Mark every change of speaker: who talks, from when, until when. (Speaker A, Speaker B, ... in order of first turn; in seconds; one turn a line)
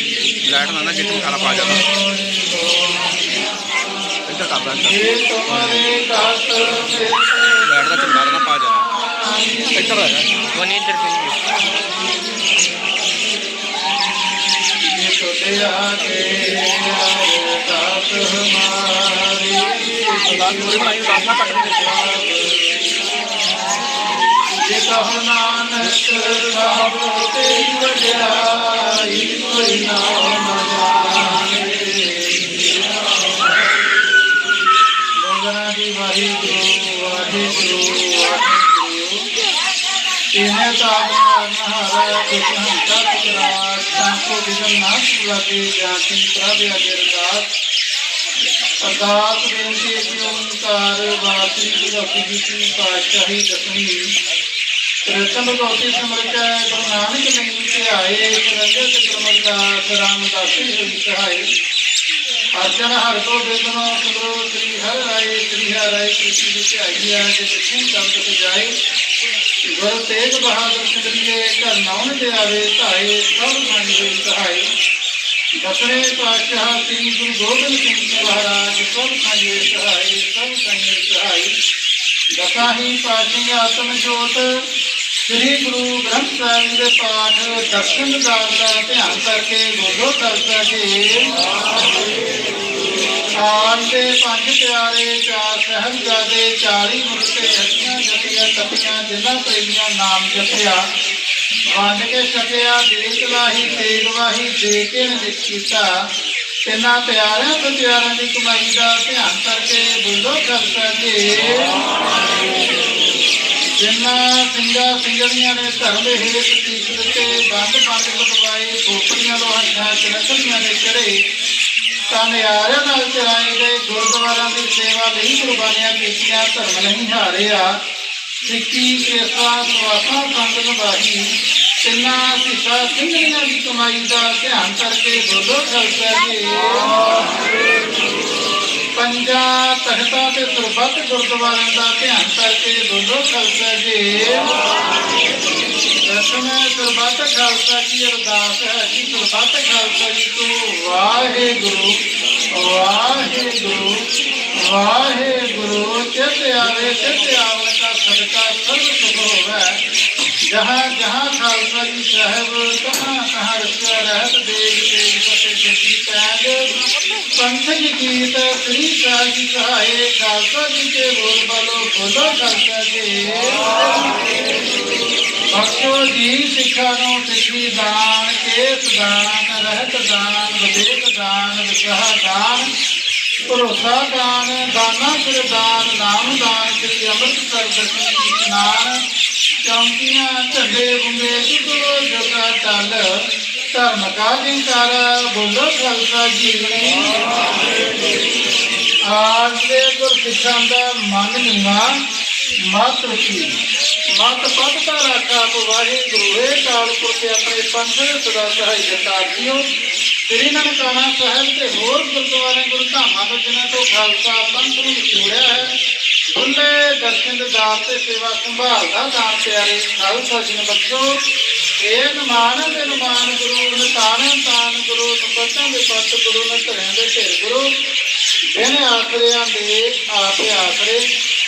Speaker A: 0.4-1.8
Speaker B: 0.9-3.1
Speaker A: 4.3-5.8
Speaker B: 4.8-10.1
Speaker A: 7.7-8.8
Speaker A: 9.7-10.3
Speaker C: 10.6-11.3
Speaker B: 14.8-22.9
Speaker C: 20.4-21.8
Speaker B: 24.5-32.9
Speaker B: 35.2-39.2
Speaker B: 40.3-47.5
Speaker B: 48.8-54.1
Speaker B: 55.0-61.5
Speaker B: 62.6-68.7
Speaker B: 69.7-74.6
Speaker B: 75.6-81.5
Speaker B: 82.3-84.5
Speaker B: 85.2-91.3
Speaker B: 93.4-100.8
Speaker B: 101.7-105.9
Speaker B: 106.7-111.8
Speaker B: 113.8-121.1
Speaker B: 122.1-127.7
Speaker B: 128.4-131.3
Speaker B: 131.8-137.2
Speaker B: 139.0-144.6
Speaker B: 146.0-151.9
Speaker B: 152.5-154.0
Speaker B: 154.6-159.8
Speaker B: 160.5-166.6
Speaker B: 167.4-174.4
Speaker B: 175.5-182.7
Speaker B: 183.5-189.0
Speaker B: 189.6-193.1
Speaker B: 193.7-197.2
Speaker B: 199.1-201.8
Speaker B: 202.7-203.6
Speaker B: 204.2-209.6
Speaker B: 210.3-215.7
Speaker B: 216.3-221.1
Speaker B: 221.8-227.6
Speaker B: 228.5-231.0